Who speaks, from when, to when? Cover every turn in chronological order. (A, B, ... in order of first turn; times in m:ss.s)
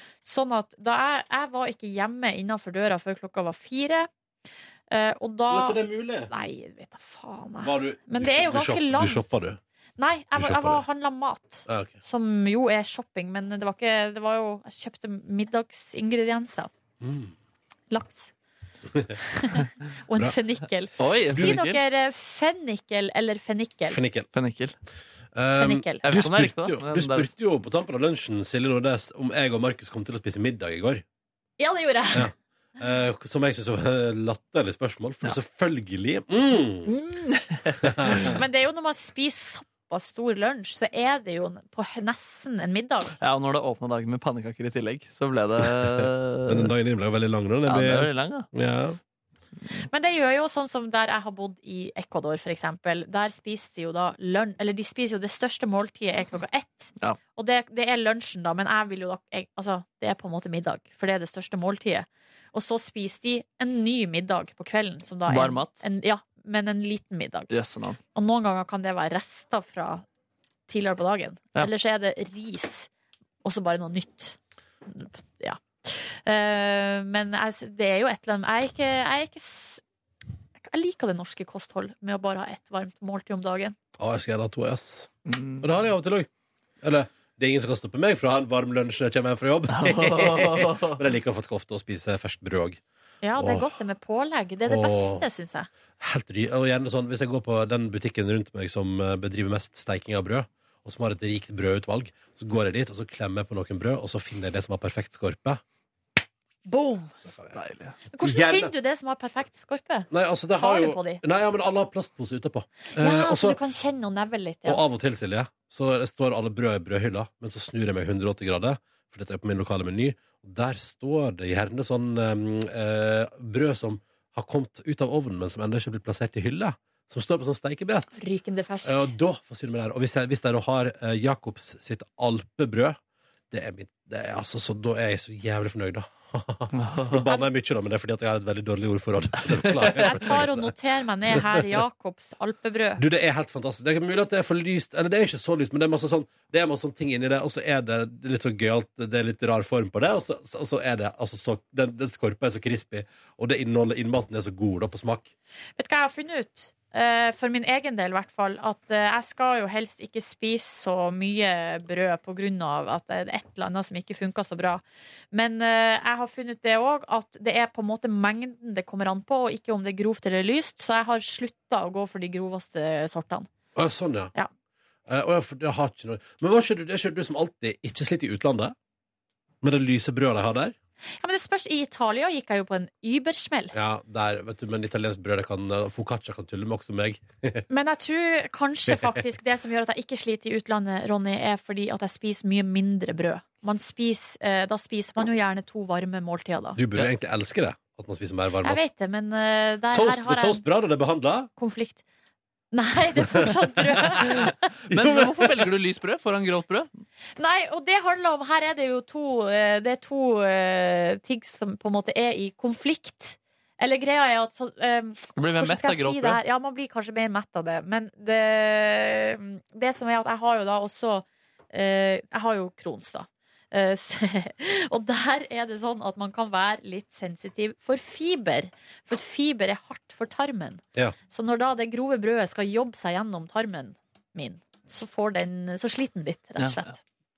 0:00.2-0:04.1 A
0:04.9-0:09.3 A
0:05.5-0:06.3 B
0:07.6-0:09.6 B
0:10.0-0:16.7 A
0:10.4-0:10.8 B
0:11.7-0:12.0 B
0:17.0-0:17.3 B
0:17.9-0:18.3 A
0:18.9-0:19.2 B
0:19.2-0:24.0 A
0:21.0-0:21.8 C
0:21.3-0:21.8 B
0:23.9-0:24.3 B
0:24.3-0:24.8 C
0:25.4-0:31.0 B
0:25.6-0:26.0 A
0:26.0-0:27.3 C
0:31.6-0:32.3 A
0:32.1-0:36.9 B
0:37.3-0:38.3 C
0:37.8-0:38.4 B
0:38.1-0:43.2 A
0:43.2-0:46.7 C
0:45.6-0:49.0 B
0:47.7-0:48.5 C
0:49.9-1:07.5 A
1:05.3-1:05.8 C
1:07.5-1:08.0 C
1:08.2-1:10.0 A
1:10.7-1:12.9 A
1:13.4-1:19.8 A
1:20.6-1:23.8 A
1:24.0-1:26.3 B
1:25.3-1:25.7 C
1:26.8-1:32.8 B
1:29.7-1:31.0 C
1:33.2-1:35.7 A
1:33.4-1:33.7 B
1:34.7-1:35.2 B
1:36.0-1:45.6 B
1:46.7-1:47.3 A
1:47.5-1:48.0 C
1:48.1-1:51.2 A
1:48.2-1:48.7 B
1:50.1-1:53.6 B
1:53.0-1:54.8 A
1:54.7-2:08.2 B
2:08.2-2:09.1 A
2:08.8-2:13.0 B
2:13.5-2:20.7 B
2:16.7-2:17.2 C
2:19.7-2:20.2 C
2:20.0-2:23.0 A
2:21.3-2:21.7 B
2:23.0-2:35.3 B
2:35.8-2:53.5 A
2:53.8-2:54.3 B
2:55.1-2:58.8 B
2:59.6-3:00.8 B
3:01.2-3:03.8 A
3:03.7-3:07.6 B
3:07.7-3:16.8 A
3:08.9-3:09.2 B
3:16.8-3:18.8 B
3:18.6-3:20.6 A
3:19.9-3:21.5 B
3:21.6-3:22.0 A
3:22.7-3:24.6 A
3:24.2-3:25.7 B
3:24.2-3:26.9 C
3:27.4-3:57.0 A
3:35.4-3:36.4 C
3:56.6-3:56.8 C